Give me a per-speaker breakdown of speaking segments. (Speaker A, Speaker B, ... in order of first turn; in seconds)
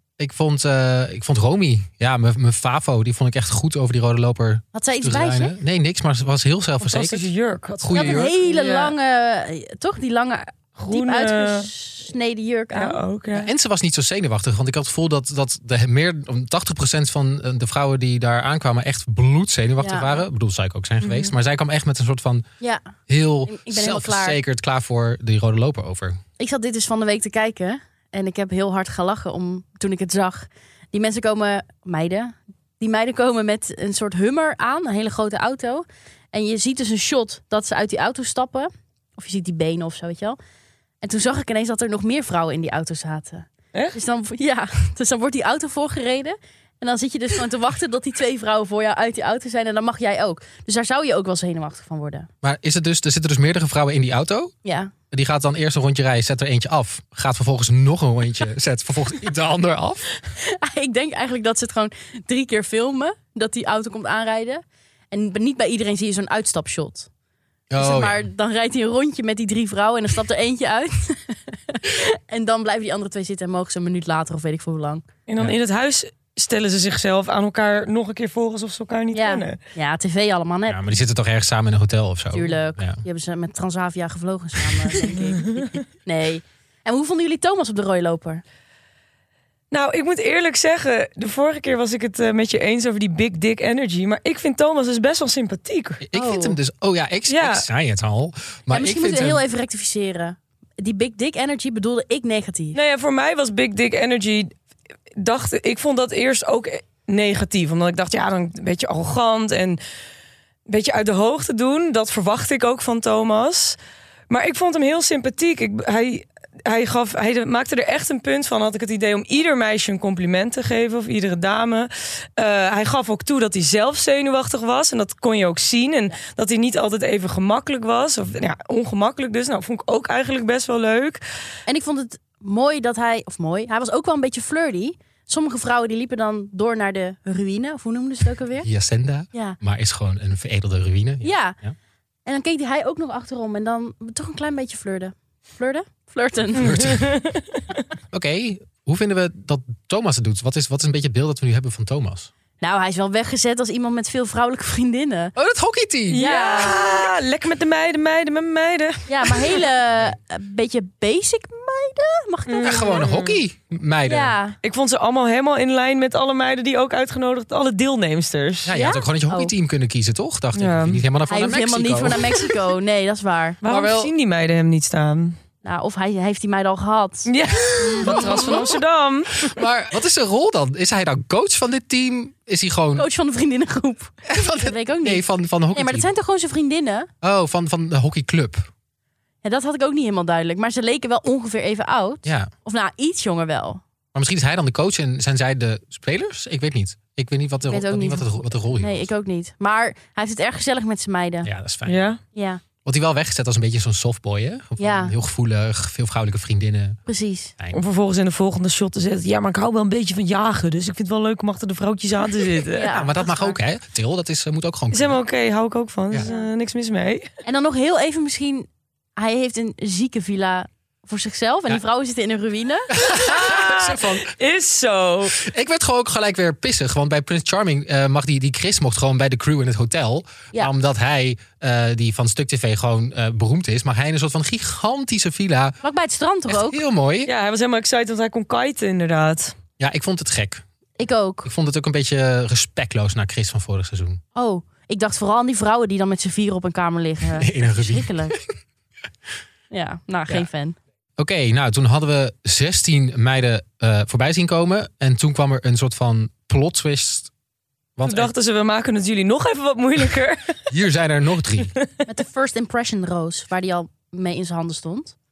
Speaker A: 0.2-8.3, 13.3-22.4, 23.1-26.2, 52.4-54.5, 55.1-60.1, 67.7-68.3, 80.7-83.0, 96.0-99.5, 138.6-141.7, 146.6-147.1, 148.1-152.3, 155.4-156.3, 162.6-164.4, 168.7-172.4, 173.7-174.1, 178.0-178.7, 179.4-183.1, 184.3-186.1, 187.2-188.7, 192.2-192.5, 194.1-199.1, 201.4-202.1, 202.8-207.0, 212.8-215.2, 222.9-224.3, 225.3-235.8, 236.5-237.3, 239.8-240.6, 241.4-244.2, 247.4-248.4, 251.2-257.3, 258.0-258.3, 260.7-261.7
Speaker B: 4.7-5.6, 7.9-13.0, 19.8-20.2, 23.5-24.4, 26.4-40.4, 41.0-52.3, 54.6-54.9, 60.4-67.1, 67.8-75.1, 79.1-80.9, 82.3-88.4, 96.1-96.6, 98.7-102.8, 131.7-138.7, 141.2-141.6, 142.3-146.9, 152.6-155.3, 156.2-156.8, 159.1-163.1, 164.1-164.6, 168.7-169.5, 171.3-173.6, 175.6-177.3, 177.8-178.6, 183.0-187.1, 189.4-193.8, 197.7-201.5, 202.3-202.6, 204.8-205.1, 207.1-207.5, 212.8-213.6, 217.4-222.9, 235.8-236.8, 241.0-241.5, 244.3-248.4, 249.7-250.8, 262.1-265.1
Speaker C: 6.8-8.9, 10.8-11.7, 12.7-13.5, 75.3-79.6, 89.7-96.0, 97.3-97.7, 102.7-104.5, 105.2-109.8, 110.7-113.8, 114.3-131.2, 146.7-147.6, 156.1-159.6, 162.5-163.4, 164.6-168.7, 170.6-171.0, 173.6-175.4, 177.3-179.5, 201.9-202.2, 207.7-212.9, 214.9-217.3, 223.2-225.4, 237.3-239.6, 258.0-260.6